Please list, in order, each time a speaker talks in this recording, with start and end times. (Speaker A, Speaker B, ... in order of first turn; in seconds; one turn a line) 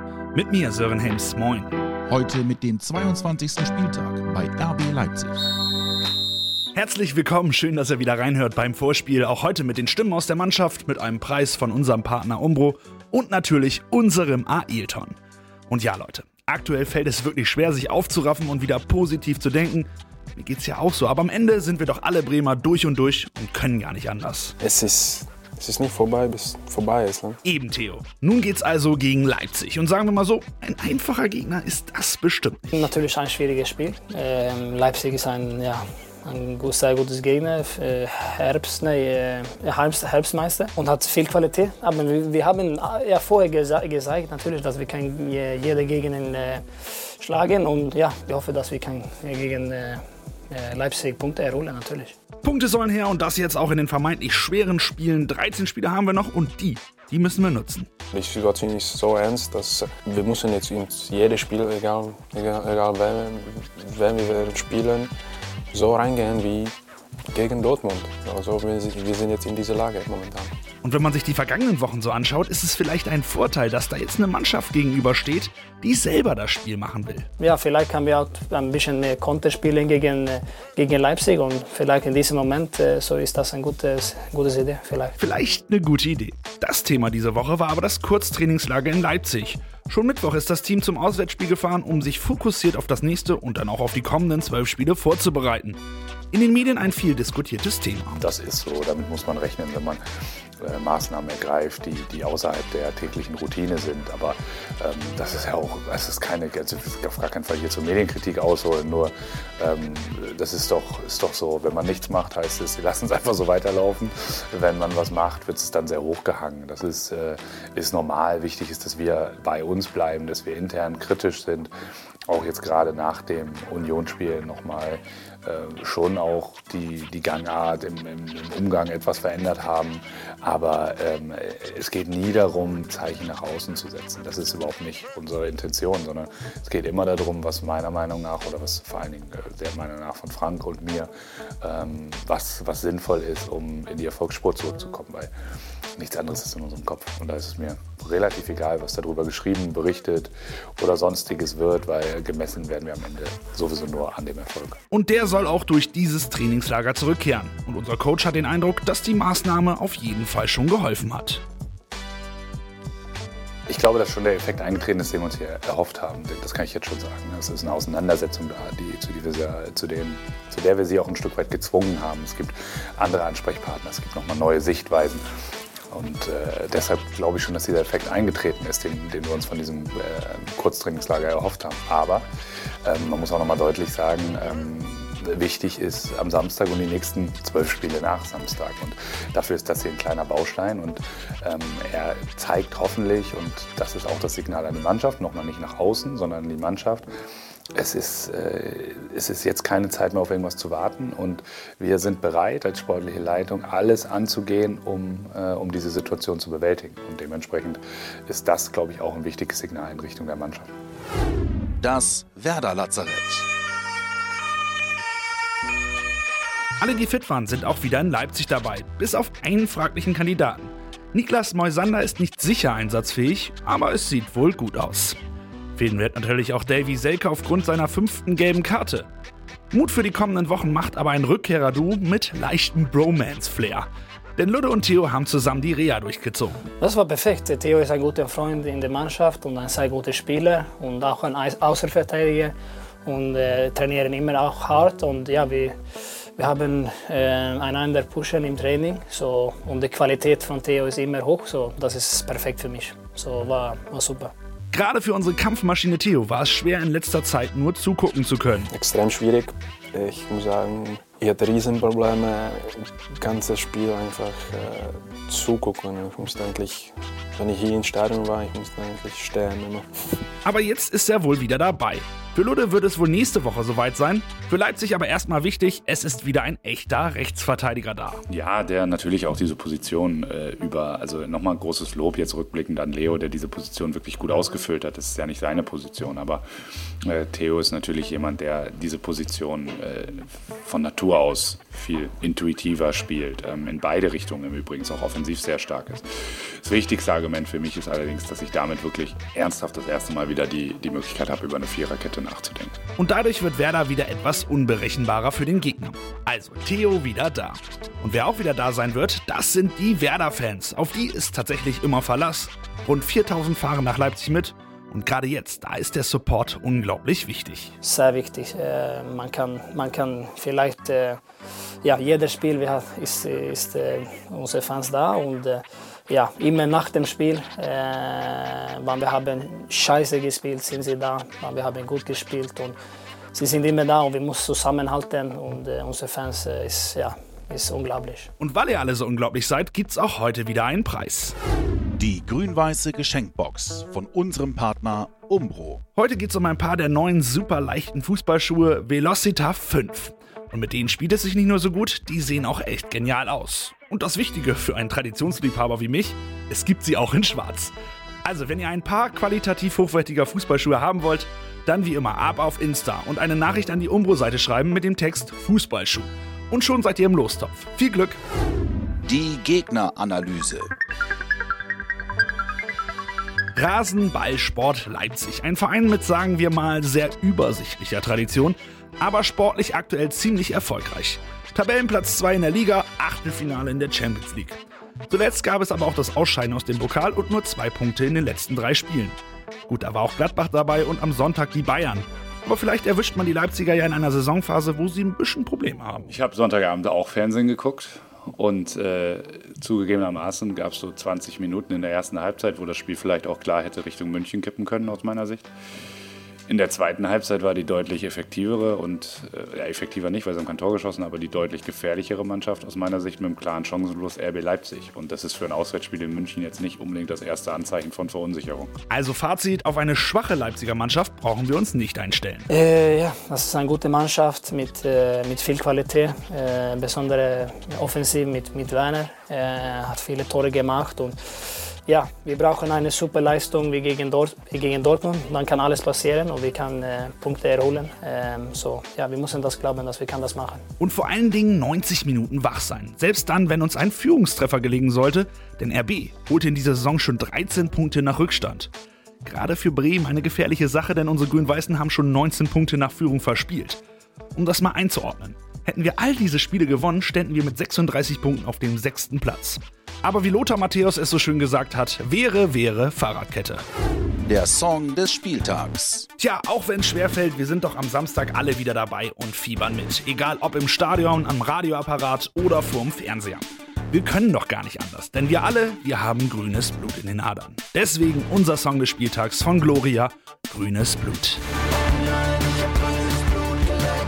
Speaker A: 0.3-1.8
Speaker B: 2.1-5.5
Speaker A: 6.7-15.2
Speaker A: 15.7-24.5
Speaker C: 24.6-27.4
Speaker A: 27.4-32.9
Speaker D: 32.7-52.1
Speaker A: 52.4-57.9
Speaker C: 58.1-65.1
Speaker C: 65.7-66.7
Speaker C: 67.3-70.5
Speaker A: 70.8-77.3
Speaker D: 77.4-85.2
Speaker A: 85.2-95.8
Speaker A: 96.3-98.2
Speaker E: 98.2-100.0
Speaker E: 100.6-121.7
Speaker E: 122.3-145.3
Speaker E: 146.0-154.8
Speaker A: 154.9-161.4
Speaker E: 163.7-175.2
Speaker E: 175.9-182.3
Speaker E: 182.8-197.1
Speaker E: 197.7-210.7
Speaker B: 211.8-213.5
Speaker A: 216.8-225.2
Speaker A: 225.8-229.1
Speaker A: 229.7-236.6
Speaker D: 236.8-245.8
Speaker D: 246.4-254.3
Speaker A: 254.7-258.7
Speaker C: 258.7-269.9
Speaker A: 270.4-278.2
Speaker E: 278.3-286.4
Speaker E: 287.0-302.8
Speaker A: 303.0-317.7
Speaker D: 317.8-321.2
Speaker D: 321.8-332.8
Speaker D: 333.3-338.3
Speaker A: 338.4-341.3
Speaker B: 342.0-345.8
Speaker A: 345.9-368.2
Speaker B: 369.0-370.7
Speaker A: 373.5-389.1
Speaker A: 389.7-396.1
Speaker E: 396.1-405.5
Speaker E: 406.5-418.8
Speaker A: 418.9-422.5
Speaker D: 422.5-431.1
Speaker D: 431.8-440.6
Speaker A: 440.8-448.7
Speaker A: 449.2-453.8
Speaker A: 454.3-463.6
Speaker B: 464.3-466.1
Speaker A: 466.2-481.4